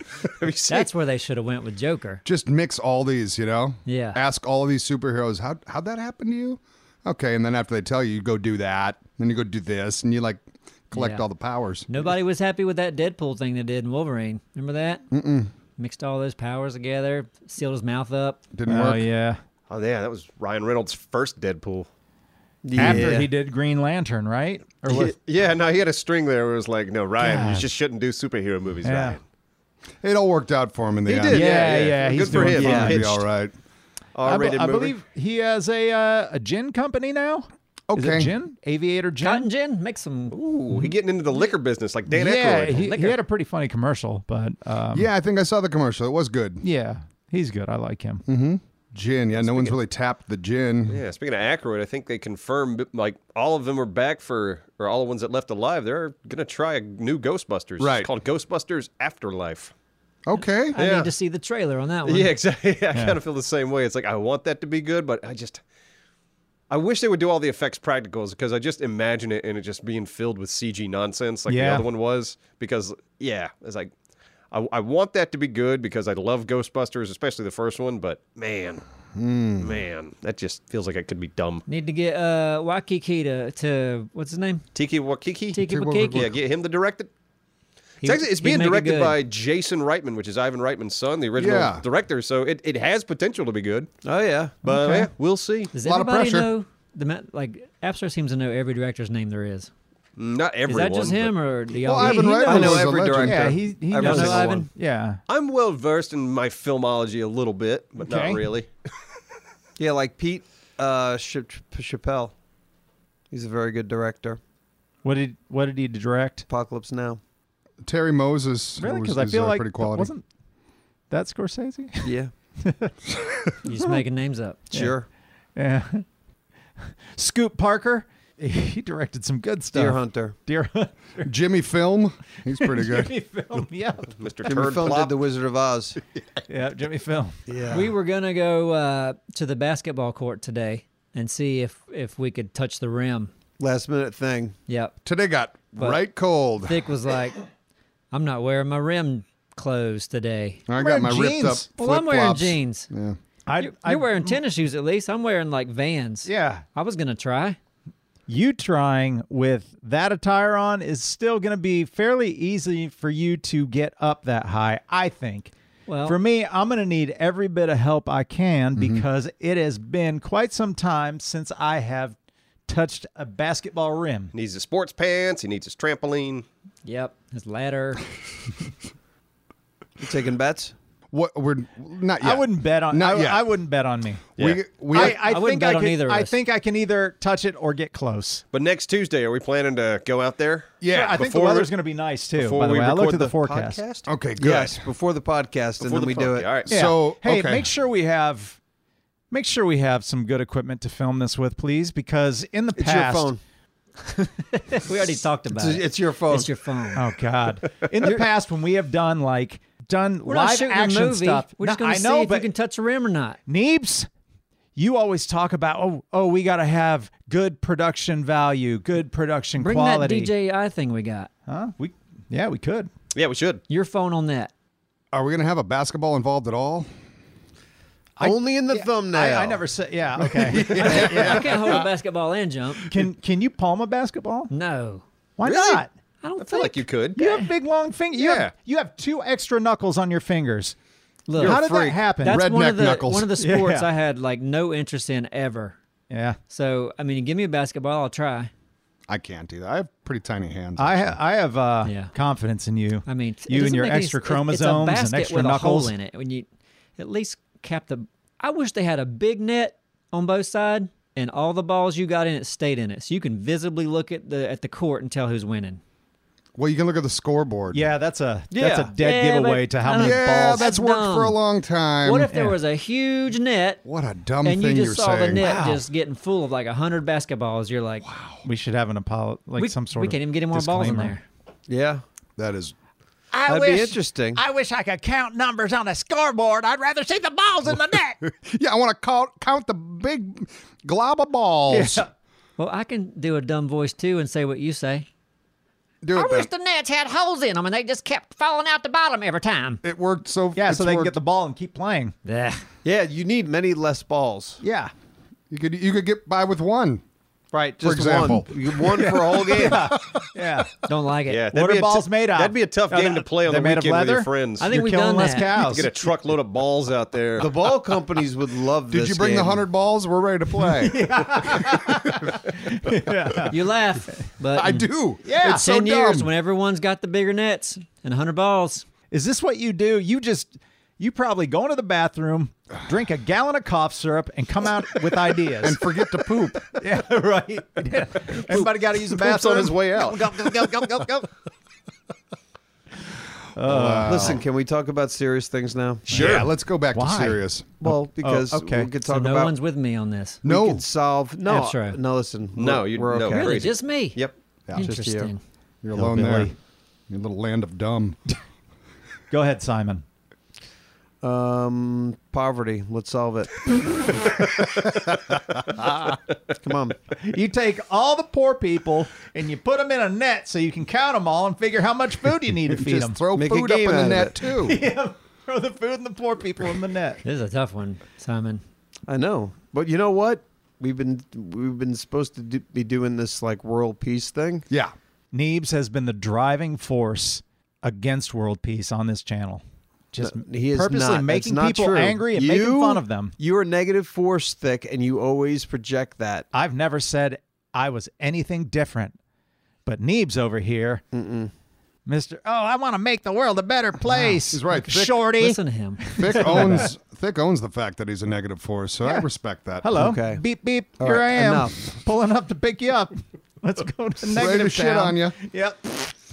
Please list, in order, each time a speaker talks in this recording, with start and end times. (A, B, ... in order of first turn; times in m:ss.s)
0:00.2-0:00.9 A
0:00.7-0:02.2 B
0:02.2-0:12.0 C
0:03.9-0:04.2 B
0:10.9-0:11.3 B
0:11.9-0:15.0 B
0:15.1-0:15.5 C
0:15.8-0:18.4 B
0:18.5-0:19.0 C
0:18.7-0:19.4 D
0:19.7-0:21.9 A
0:22.6-0:23.3 E
0:22.8-0:25.2 D
0:24.9-0:29.2 A
0:27.2-0:27.7 D
0:28.8-0:29.2 D
0:30.0-0:31.5 C
0:31.1-0:31.7 E
0:31.1-0:33.2 A
0:31.3-0:33.1 D
0:32.4-0:33.5 C
0:32.6-0:33.0 E
0:34.1-0:35.0 A
0:34.2-0:39.5 D
0:37.9-0:38.3 C
0:39.2-0:40.4 B
0:40.3-0:42.9 A
0:42.1-0:45.1 D
0:42.9-0:43.2 B
0:44.9-0:46.6 C
0:46.6-0:48.2 D
0:48.3-0:51.0 C
0:49.4-0:49.8 A
0:50.9-0:59.7 A
0:57.8-0:58.1 C
1:00.3-1:00.8 C
1:00.7-1:02.3 B
1:00.8-1:01.1 A
1:02.0-1:05.6 A
1:06.7-1:13.9 A
1:11.5-1:11.9 D
1:14.5-1:18.8 A
1:19.2-1:19.8 C
1:19.6-1:21.6 A
1:21.7-1:24.6 B
1:24.8-1:27.1 A
1:25.5-1:26.3 B
1:25.7-1:26.3 C
1:28.0-1:29.2 B
1:28.0-1:33.9 A
1:31.4-1:31.8 C
1:34.0-1:34.6 E
1:34.6-1:35.1 D
1:34.6-1:35.7 A
1:35.7-1:39.7 B
1:35.8-1:36.5 C
1:40.2-1:41.3 A
1:40.7-1:42.8 B
1:41.9-1:43.6 C
1:41.9-1:45.2 D
1:42.5-1:44.7 E
1:43.9-1:44.7 B
1:45.3-1:48.7 A
1:48.0-1:48.4 D
1:49.8-1:52.3 E
1:53.3-1:54.4 E
1:55.0-1:56.5 D
1:56.5-1:57.2 E
1:57.8-2:00.1 C
1:58.8-2:00.2 D
2:01.1-2:02.9 D
2:02.0-2:02.3 E
2:03.7-2:04.6 B
2:03.7-2:04.0 D
2:04.7-2:05.1 E
2:05.6-2:06.0 D
2:07.1-2:11.3 D
2:09.7-2:10.4 E
2:11.2-2:13.1 C
2:12.6-2:14.2 D
2:14.2-2:15.2 A
2:14.4-2:16.0 E
2:16.5-2:17.4 D
2:17.5-2:17.9 E
2:17.7-2:23.3 B
2:23.6-2:24.6 E
2:24.7-2:24.9 B
2:25.0-2:26.9 C
2:25.8-2:26.0 B
2:26.6-2:27.4 B
2:28.1-2:30.6 B
2:30.7-2:33.2 C
2:30.7-2:31.7 D
2:31.8-2:32.9 B
2:33.5-2:34.4 D
2:33.6-2:37.6 B
2:36.2-2:36.6 D
2:38.3-2:45.5 D
2:45.9-2:46.2 B
2:46.0-2:54.3 D
2:48.8-2:49.0 C
2:54.3-2:56.4 A
2:56.8-2:58.1 B
3:00.0-3:00.7 E
3:01.1-3:03.4 C
3:02.2-3:04.3 D
3:04.4-3:05.2 C
3:04.9-3:08.4 D
3:04.9-3:06.4 B
3:08.5-3:11.7 A
3:10.8-3:11.3 C
3:10.9-3:13.8 D
3:12.3-3:14.1 A
3:14.1-3:14.8 C
3:14.4-3:16.6 E
3:15.8-3:16.7 A
3:16.7-3:18.6 D
3:16.7-3:17.7 C
3:19.3-3:23.3 D
3:22.8-3:23.4 E
3:24.1-3:27.1 B
3:25.5-3:26.5 E
3:27.0-3:32.5 D
3:28.0-3:28.3 B
3:30.3-3:33.4 B
3:33.5-3:34.1 D
3:34.8-3:40.3 D
3:39.6-3:41.3 B
3:41.5-3:42.9 D
3:43.1-3:43.6 A
3:43.7-3:44.5 B
3:45.1-3:46.9 C
3:48.2-3:51.9 D
3:48.2-3:49.6 E
3:50.3-3:51.6 C
3:50.8-3:52.9 B
3:52.9-3:54.5 D
3:54.5-3:55.0 B
3:55.4-3:55.9 D
3:55.4-3:55.8 A
3:56.2-3:57.5 B
3:56.4-3:57.2 A
3:57.2-4:00.8 D
3:58.2-3:58.5 A
4:01.3-4:05.8 B
4:01.4-4:02.4 D
4:02.1-4:03.3 C
4:03.4-4:03.9 D
4:06.1-4:06.4 D
4:06.5-4:08.5 B
4:09.1-4:11.2 C
4:10.8-4:15.9 D
4:11.8-4:12.1 B
4:13.1-4:25.8 B
4:26.6-4:27.8 C
4:27.7-4:30.7 D
4:28.5-4:28.9 A
4:28.9-4:31.4 B
4:30.0-4:32.3 C
4:32.0-4:33.8 B
4:32.3-4:32.6 D
4:33.8-4:35.5 C
4:34.4-4:38.1 B
4:35.4-4:35.8 D
4:38.0-4:38.4 C
4:38.4-4:41.2 D
4:39.6-4:41.2 B
4:41.7-4:42.0 E
4:42.4-4:42.8 C
4:43.3-4:48.2 D
4:43.5-4:44.4 E
4:48.2-4:52.0 C
4:51.7-4:52.1 D
4:52.6-4:55.1 B
4:56.0-4:56.5 C
4:56.1-4:59.8 B
4:59.8-5:01.2 C
5:00.6-5:02.2 D
5:02.2-5:02.6 B
5:02.8-5:04.6 E
5:04.6-5:04.9 D
5:05.5-5:07.0 C
5:07.5-5:10.0 E
5:07.8-5:10.2 C
5:09.0-5:10.8 D
5:10.9-5:11.5 B
5:11.3-5:14.7 A
5:11.5-5:16.0 D
5:14.6-5:15.7 B
5:15.4-5:17.8 A
5:17.4-5:19.6 E
5:18.9-5:23.4 C
5:20.6-5:23.6 D
5:23.5-5:24.9 B
5:24.5-5:26.3 C
5:25.2-5:25.6 D
5:25.4-5:28.9 B
5:29.1-5:36.0 D
5:35.6-5:36.7 C
5:36.7-5:41.1 D
5:38.3-5:41.3 A
5:43.6-5:44.4 D
5:43.6-5:44.4 C
5:44.0-5:46.3 E
5:46.1-5:46.5 A
5:46.1-5:47.8 C
5:46.1-5:48.9 D
5:47.8-5:49.5 E
5:49.0-5:50.4 B
5:50.4-5:50.8 C
5:50.4-5:53.7 E
5:51.4-5:52.0 B
5:52.6-5:54.3 A
5:53.3-5:54.2 B
5:54.7-5:55.4 B
5:54.8-5:55.3 E
5:55.8-5:56.5 C
5:55.9-5:56.5 D
5:57.1-5:58.2 C
5:59.3-6:00.0 D
6:01.2-6:04.1 E
6:06.6-6:07.0 E
6:07.1-6:13.2 D
6:12.7-6:14.8 C
6:13.3-6:14.5 E
6:14.6-6:17.2 D
6:17.2-6:18.6 B
6:19.1-6:24.7 E
6:25.3-6:33.3 D
6:30.2-6:36.5 E
6:36.5-6:39.2 D
6:39.8-6:41.0 D
6:41.1-6:41.5 E
6:42.1-6:46.9 D
6:44.2-6:45.2 C
6:45.3-6:46.9 B
6:46.2-6:50.0 C
6:49.8-6:56.1 D
6:50.0-6:50.4 E
6:51.0-6:51.8 E
6:54.2-6:55.4 C